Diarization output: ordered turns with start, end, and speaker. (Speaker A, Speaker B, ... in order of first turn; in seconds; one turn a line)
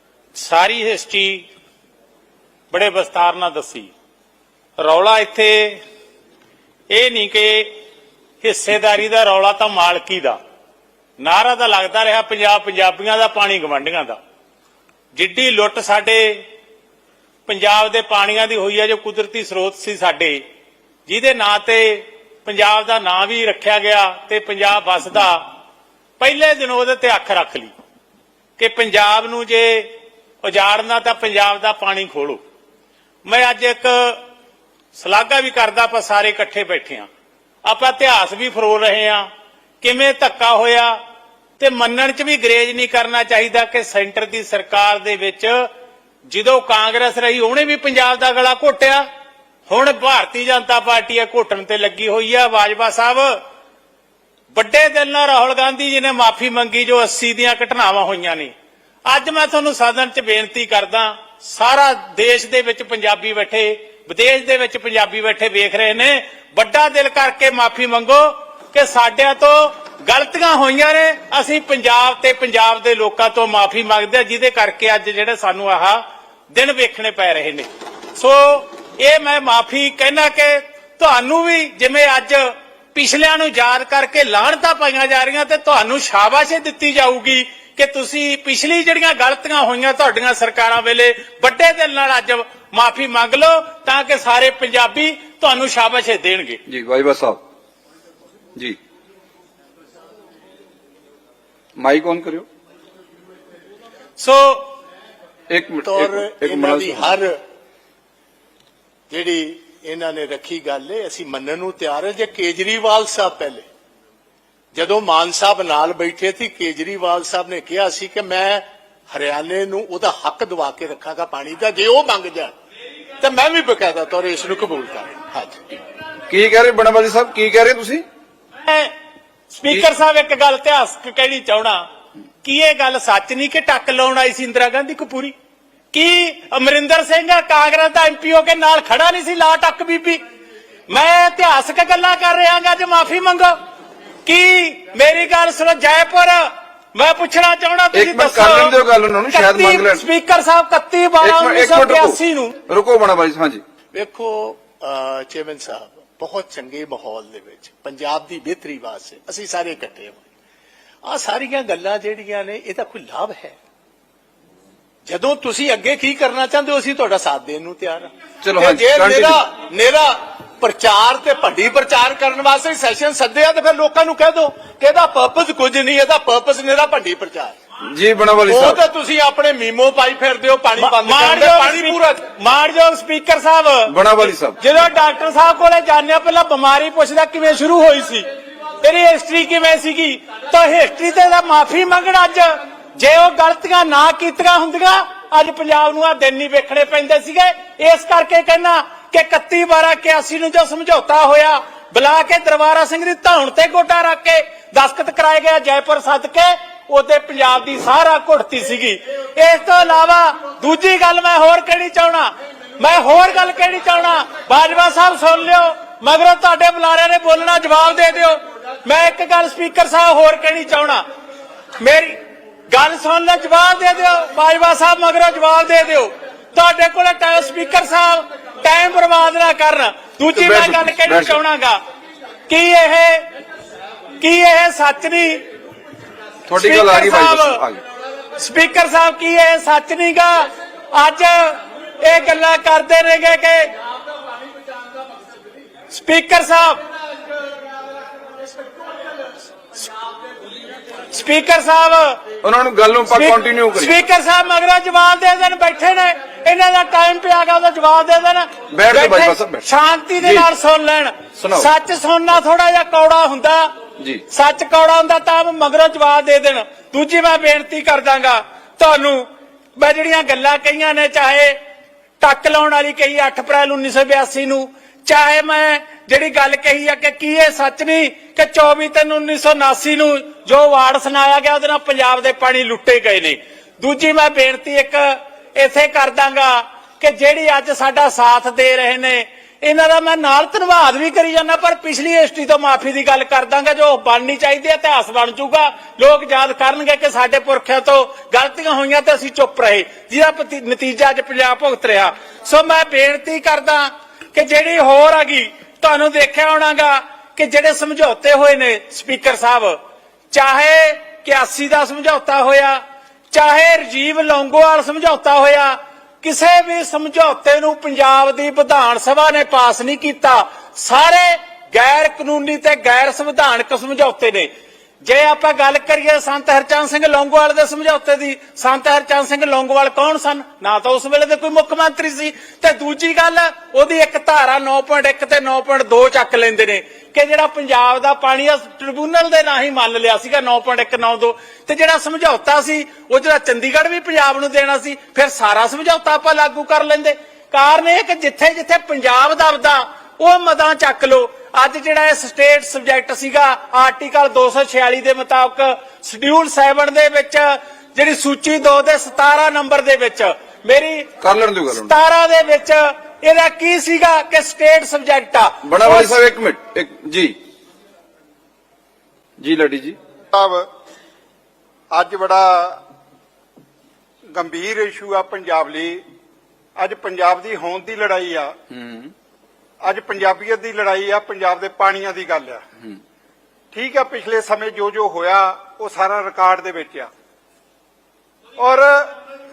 Speaker A: 0.3-1.4
Speaker A: 2.7-3.9
Speaker A: 4.8-5.8
Speaker A: 6.9-7.7
Speaker A: 8.4-10.4
Speaker A: 11.2-14.2
Speaker A: 15.1-16.4
Speaker A: 17.5-20.4
Speaker A: 21.1-25.4
Speaker A: 26.2-27.7
Speaker A: 28.6-29.9
Speaker A: 30.4-32.4
Speaker A: 33.2-34.2
Speaker A: 34.9-37.1
Speaker A: 37.6-39.3
Speaker A: 39.8-41.0
Speaker A: 41.6-45.7
Speaker A: 46.2-49.1
Speaker A: 49.7-53.4
Speaker A: 54.5-58.5
Speaker A: 59.0-96.6
Speaker B: 96.7-97.4
Speaker B: 101.8-102.5
Speaker A: 104.2-104.7
Speaker B: 105.5-107.2
Speaker C: 105.8-107.4
Speaker C: 109.1-113.7
Speaker C: 114.7-122.5
Speaker C: 123.2-125.6
Speaker B: 126.3-128.0
Speaker A: 128.6-128.9
Speaker A: 129.5-131.8
Speaker A: 132.4-135.3
Speaker A: 135.9-140.2
Speaker A: 140.9-143.6
Speaker A: 144.2-148.8
Speaker B: 147.9-150.0
Speaker A: 149.3-152.6
Speaker B: 151.2-153.6
Speaker C: 153.9-160.2
Speaker C: 161.0-163.6
Speaker C: 165.1-177.6
Speaker B: 168.4-169.4
Speaker B: 177.8-178.8
Speaker C: 178.4-182.2
Speaker A: 180.8-188.2
Speaker B: 183.9-184.6
Speaker A: 188.8-221.0
Speaker A: 221.8-222.2
Speaker A: 222.7-231.8
Speaker B: 230.3-231.4
Speaker A: 232.5-233.2
Speaker A: 234.2-235.4
Speaker B: 236.4-237.8
Speaker A: 236.6-237.6
Speaker A: 238.4-243.7
Speaker A: 245.9-246.8
Speaker A: 251.1-252.2
Speaker B: 252.4-253.9
Speaker A: 253.1-263.7
Speaker B: 258.7-259.6
Speaker B: 260.2-260.5
Speaker B: 261.4-261.7
Speaker B: 264.0-264.2
Speaker A: 264.3-271.6
Speaker A: 272.2-309.8
Speaker A: 310.3-312.8
Speaker A: 313.3-324.5
Speaker A: 325.0-361.1
Speaker B: 361.2-361.9
Speaker A: 361.7-366.3
Speaker B: 365.6-367.4
Speaker B: 369.4-370.0
Speaker D: 370.3-370.7
Speaker D: 371.9-372.8
Speaker D: 374.3-376.0
Speaker D: 376.8-378.5
Speaker B: 378.7-379.1
Speaker D: 379.8-382.6
Speaker D: 383.7-387.1
Speaker D: 388.6-389.1